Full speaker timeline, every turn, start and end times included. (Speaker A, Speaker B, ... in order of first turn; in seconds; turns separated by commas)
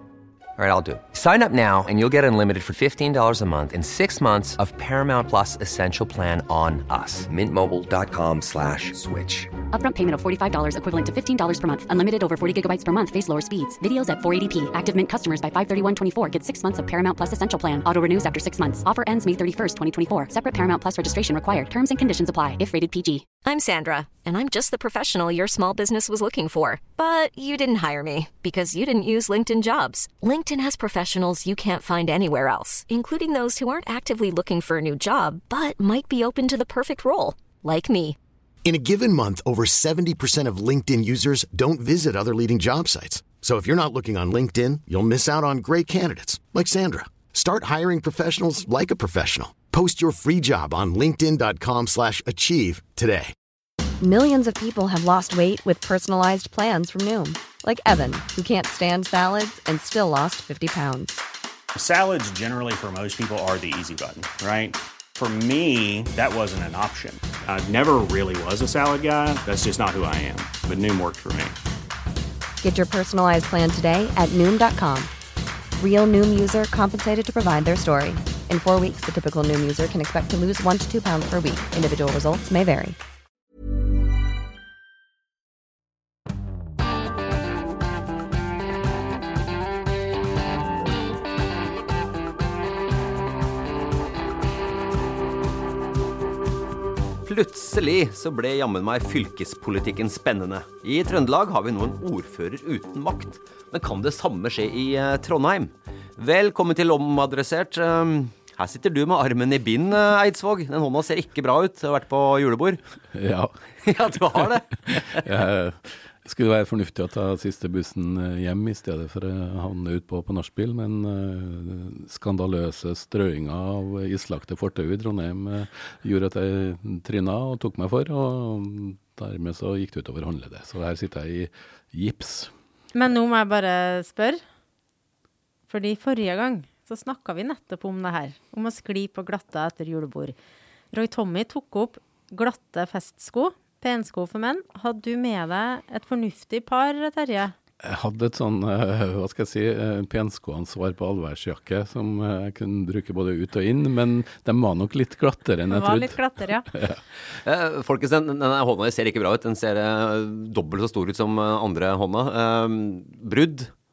Speaker A: 0.6-9.5, Speaker B: 9.7-23.3, Speaker C: 23.4-38.2, Speaker D: 38.6-53.3, Speaker E: 54.0-61.2, Speaker F: 61.8-71.6, Speaker E: 72.6-75.1, Speaker E: 75.8-83.0, Speaker G: 97.2-112.8, Speaker H: 113.1-113.6, Speaker G: 113.8-115.2, Speaker H: 114.2-132.5, Speaker I: 132.9-134.4, Speaker I: 135.7-140.3, Speaker I: 140.9-147.5, Speaker H: 147.8-156.2, Speaker I: 155.7-156.7, Speaker H: 156.7-157.0, Speaker G: 157.3-163.7